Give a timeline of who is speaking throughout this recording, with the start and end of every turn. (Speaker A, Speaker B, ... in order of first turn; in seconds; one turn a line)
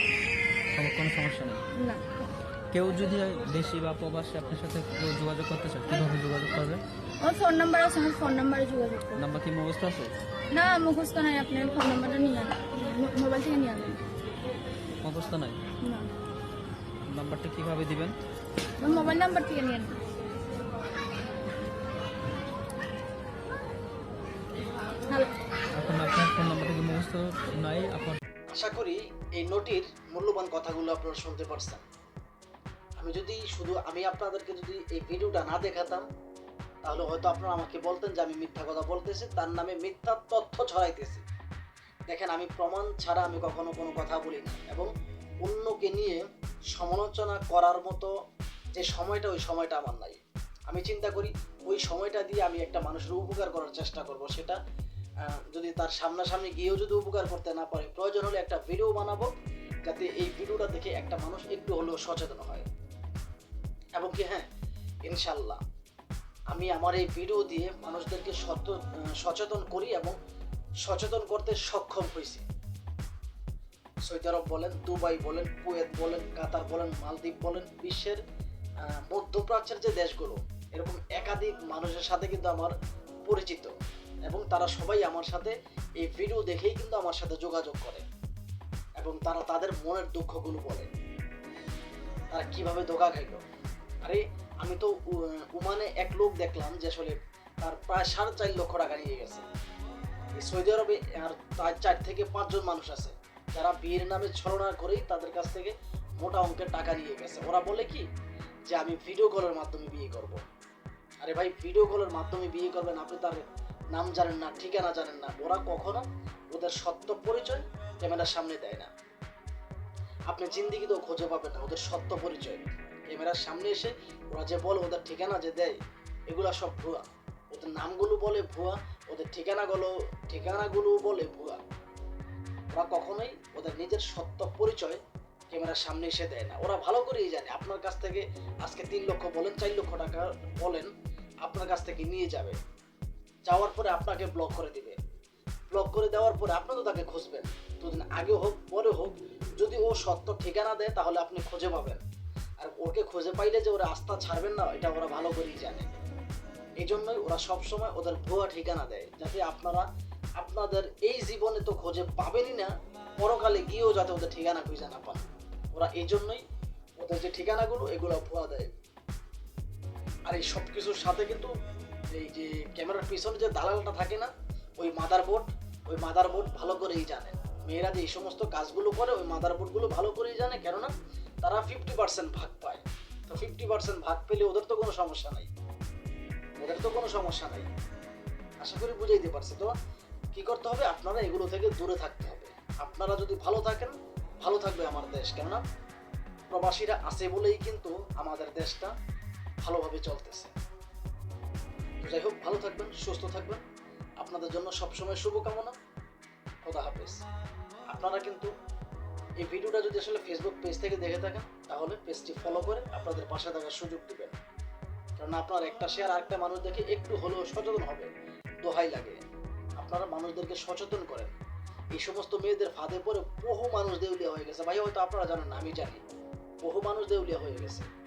Speaker A: 0.7-1.6
Speaker B: 1.8-2.0
Speaker A: 2.7-6.8
Speaker B: 7.2-9.2
Speaker A: 9.1-10.1
Speaker B: 10.5-14.0
Speaker A: 15.0-15.6
Speaker B: 15.8-16.1
Speaker A: 17.1-18.2
Speaker B: 18.8-20.0
Speaker B: 25.1-25.4
Speaker A: 25.8-28.2
Speaker C: 28.5-31.8
Speaker C: 33.0-36.0
Speaker C: 36.8-41.2
Speaker C: 42.1-44.9
Speaker C: 45.4-48.1
Speaker C: 48.8-54.6
Speaker C: 55.3-59.3
Speaker C: 59.9-62.7
Speaker C: 63.9-64.5
Speaker C: 65.1-65.6
Speaker C: 66.5-70.2
Speaker C: 70.8-72.5
Speaker C: 74.1-78.2
Speaker C: 78.9-82.7
Speaker C: 83.2-83.7
Speaker C: 84.3-88.0
Speaker C: 89.0-90.9
Speaker C: 92.3-93.4
Speaker C: 94.0-99.4
Speaker C: 100.4-108.1
Speaker C: 108.7-110.4
Speaker C: 111.2-113.4
Speaker C: 113.9-118.9
Speaker C: 120.3-125.8
Speaker C: 126.3-131.6
Speaker C: 132.7-135.0
Speaker C: 135.5-140.9
Speaker C: 141.4-142.6
Speaker C: 143.5-145.0
Speaker C: 145.7-152.0
Speaker C: 152.6-155.9
Speaker C: 156.8-159.9
Speaker C: 160.4-166.4
Speaker C: 167.0-168.7
Speaker C: 170.3-171.5
Speaker C: 172.1-180.9
Speaker C: 181.4-185.5
Speaker C: 186.6-187.7
Speaker C: 188.6-189.7
Speaker C: 190.3-195.6
Speaker C: 196.5-198.9
Speaker C: 199.6-200.5
Speaker C: 202.0-203.6
Speaker C: 204.2-205.7
Speaker C: 206.6-207.2
Speaker C: 207.9-208.5
Speaker C: 209.4-214.3
Speaker C: 215.2-218.1
Speaker C: 218.6-219.2
Speaker C: 219.8-221.3
Speaker C: 221.9-226.0
Speaker C: 226.6-227.9